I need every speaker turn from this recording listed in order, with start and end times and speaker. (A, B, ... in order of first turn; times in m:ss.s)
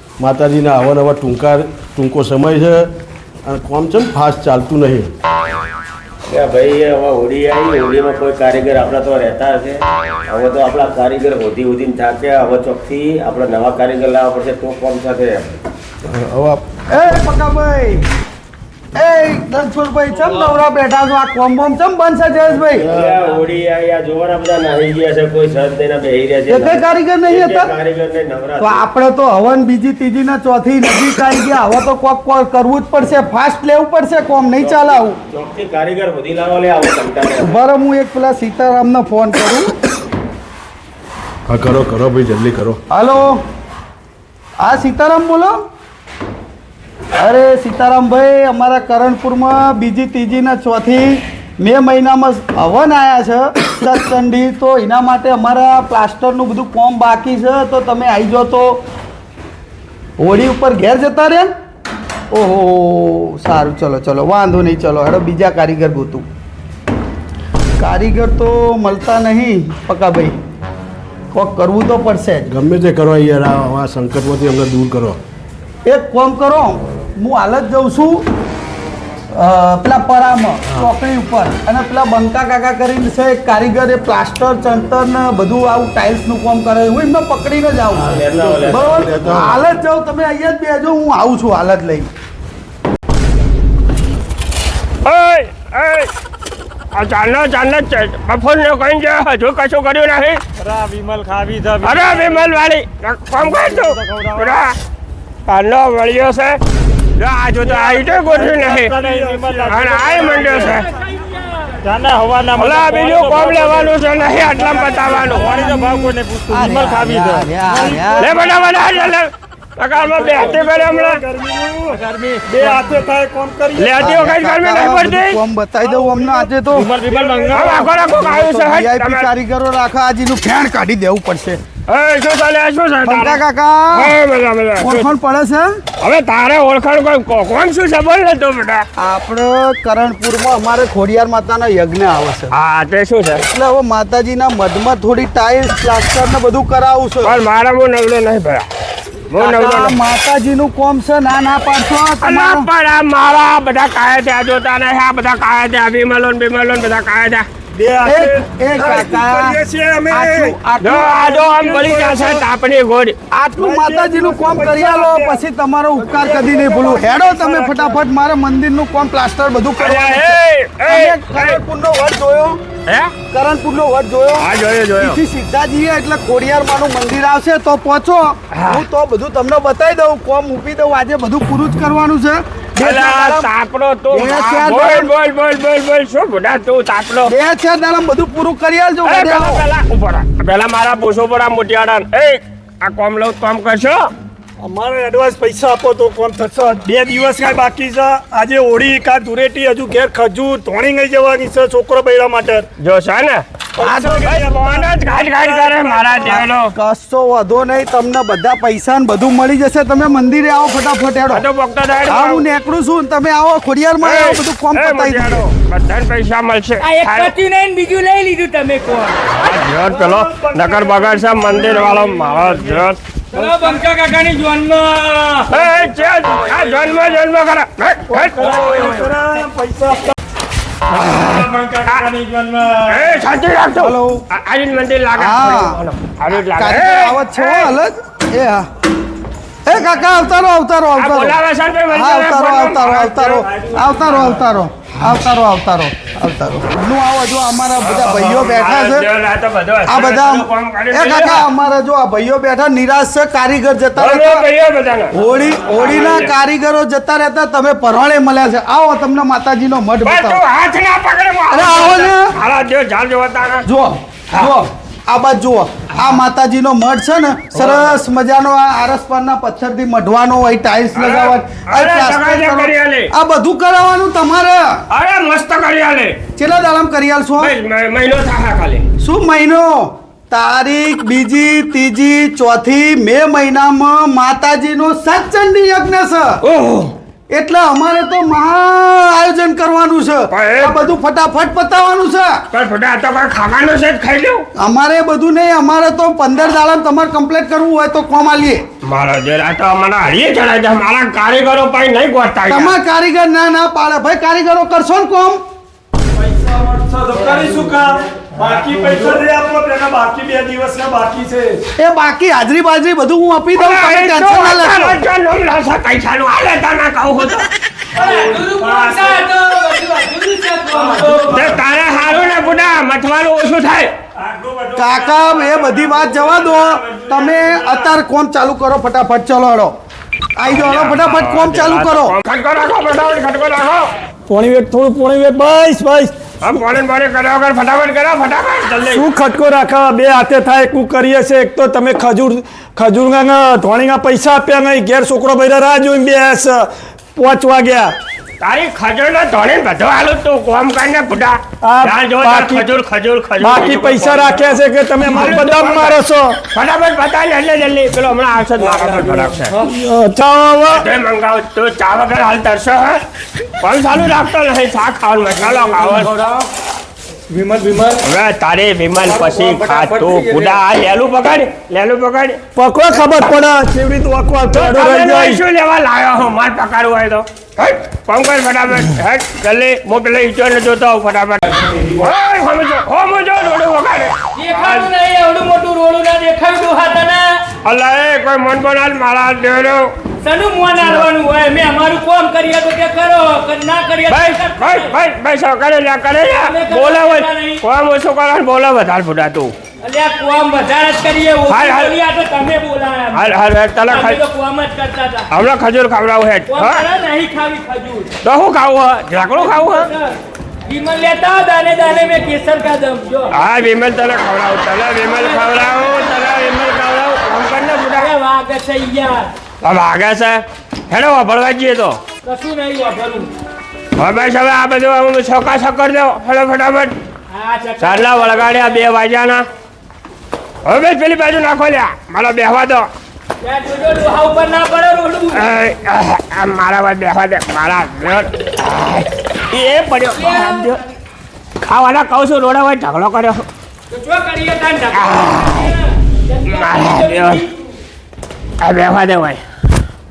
0:00.2-0:02.9 A
0:03.4-0:05.1 A
0:06.3-0:15.6 B
0:16.1-0:16.6 A
0:16.9-0:18.0 C
0:18.9-0:22.9 C
0:22.8-0:28.8 B
0:26.5-0:27.7 C
0:28.6-0:35.2 C
0:34.6-0:37.6 B
0:37.4-0:39.7 C
0:41.5-0:42.8 A
0:42.9-0:43.4 C
0:44.6-0:45.6 C
0:47.2-0:58.8 C
1:00.2-1:01.5 C
1:02.3-1:06.2 C
1:07.8-1:10.4 C
1:11.3-1:12.5 C
1:12.5-1:15.2 A
1:15.8-1:18.2 C
1:19.3-1:28.1 C
1:28.0-1:29.6 A
1:28.1-1:29.2 B
1:28.7-1:32.1 C
1:35.0-1:36.1 D
1:36.9-1:40.4 D
1:40.6-1:42.5 E
1:41.8-1:44.7 D
1:43.4-1:44.5 E
1:45.4-1:46.6 D
1:47.2-1:49.0 D
1:47.6-1:50.8 E
1:49.6-1:50.9 D
1:50.9-1:51.7 F
1:51.8-1:59.1 E
1:52.6-1:55.9 D
1:56.5-1:58.5 C
1:58.2-2:01.2 D
2:00.0-2:04.0 E
2:03.8-2:05.4 D
2:04.0-2:06.9 C
2:05.9-2:08.2 E
2:07.4-2:09.3 D
2:07.8-2:11.6 C
2:11.9-2:15.1 D
2:13.0-2:14.1 C
2:14.8-2:15.7 C
2:16.0-2:18.8 D
2:19.0-2:22.5 C
2:22.5-2:23.5 D
2:23.5-2:27.4 C
2:27.2-2:28.6 D
2:29.3-2:30.0 D
2:29.3-2:32.7 C
2:32.2-2:37.4 D
2:37.7-2:42.4 E
2:38.0-2:41.1 C
2:40.8-2:43.2 D
2:43.3-2:52.6 C
2:43.6-2:45.4 E
2:46.0-2:48.0 E
2:49.8-2:51.6 D
2:52.9-2:53.1 D
2:53.3-2:54.5 C
2:54.4-2:55.2 D
2:55.0-3:03.5 C
2:58.5-2:58.8 D
3:02.8-3:07.3 D
3:04.1-3:05.1 C
3:07.3-3:09.6 C
3:09.0-3:14.1 D
3:14.6-3:22.6 E
3:22.8-3:23.4 D
3:23.8-3:26.3 E
3:23.8-3:24.2 C
3:24.2-3:26.7 D
3:26.2-3:31.4 C
3:31.3-3:32.4 D
3:32.0-3:35.4 C
3:34.0-3:37.3 D
3:36.8-3:39.4 F
3:39.4-3:43.0 D
3:39.8-3:42.8 E
3:43.3-3:44.8 F
3:43.3-3:43.8 E
3:44.7-3:45.4 E
3:45.5-3:49.2 D
3:48.1-3:50.1 E
3:50.9-3:53.1 E
3:50.9-3:52.1 D
3:52.8-3:57.8 D
3:53.8-3:54.2 C
3:55.2-3:55.8 C
3:56.3-3:58.7 C
3:59.6-4:01.4 C
4:01.0-4:03.5 D
4:01.9-4:09.1 C
4:07.8-4:11.5 D
4:09.9-4:14.4 C
4:14.0-4:16.3 D
4:15.1-4:20.4 C
4:20.0-4:23.7 D
4:21.5-4:22.3 C
4:23.6-4:34.8 C
4:27.5-4:28.0 D
4:30.9-4:33.1 D
4:34.9-4:36.2 D
4:36.4-4:37.5 C
4:37.4-4:38.8 D
4:39.0-4:46.4 C
4:46.4-4:46.9 D
4:47.3-4:52.4 C
4:50.3-4:50.9 D
4:52.5-4:54.4 D
4:54.6-4:58.6 C
4:58.8-5:02.8 D
5:02.5-5:05.4 C
5:06.1-5:11.6 E
5:11.8-5:15.0 C
5:13.5-5:17.5 D
5:18.0-5:21.4 F
5:18.0-5:19.1 E
5:20.8-5:21.6 E
5:21.3-5:23.9 D
5:24.2-5:27.9 E
5:24.7-5:29.8 C
5:30.4-5:32.2 C
5:30.4-5:33.9 D
5:34.3-5:36.6 E
5:36.4-5:39.0 D
5:38.8-5:47.9 E
5:48.4-5:59.6 D
5:51.6-5:52.6 E
5:53.4-5:56.4 E
5:58.7-6:00.8 E
6:00.7-6:03.0 D
6:03.6-6:06.2 D
6:07.3-6:08.0 E
6:08.0-6:12.4 D
6:09.0-6:10.6 E
6:12.6-6:15.4 E
6:14.5-6:24.9 D
6:24.3-6:27.6 F
6:27.6-6:29.9 D
6:30.1-6:35.0 F
6:34.1-6:39.5 D
6:36.4-6:37.6 F
6:39.8-6:43.3 F
6:41.5-6:42.0 D
6:43.1-6:44.2 D
6:43.8-6:45.3 F
6:45.3-6:46.8 D
6:46.5-6:48.2 F
6:48.2-6:49.9 D
6:49.4-6:50.1 F
6:50.6-6:53.4 F
6:53.3-6:58.1 D
6:55.0-6:56.3 F
6:57.9-6:59.3 F
6:59.6-7:02.1 D
7:02.2-7:03.3 F
7:04.0-7:06.9 D
7:07.3-7:08.8 F
7:07.8-7:09.4 D
7:10.6-7:12.9 D
7:13.4-7:15.5 F
7:15.3-7:20.8 D
7:20.2-7:20.8 F
7:21.6-7:23.4 D
7:23.9-7:27.5 F
7:24.9-7:25.7 D
7:26.5-7:27.4 D
7:28.6-7:29.4 D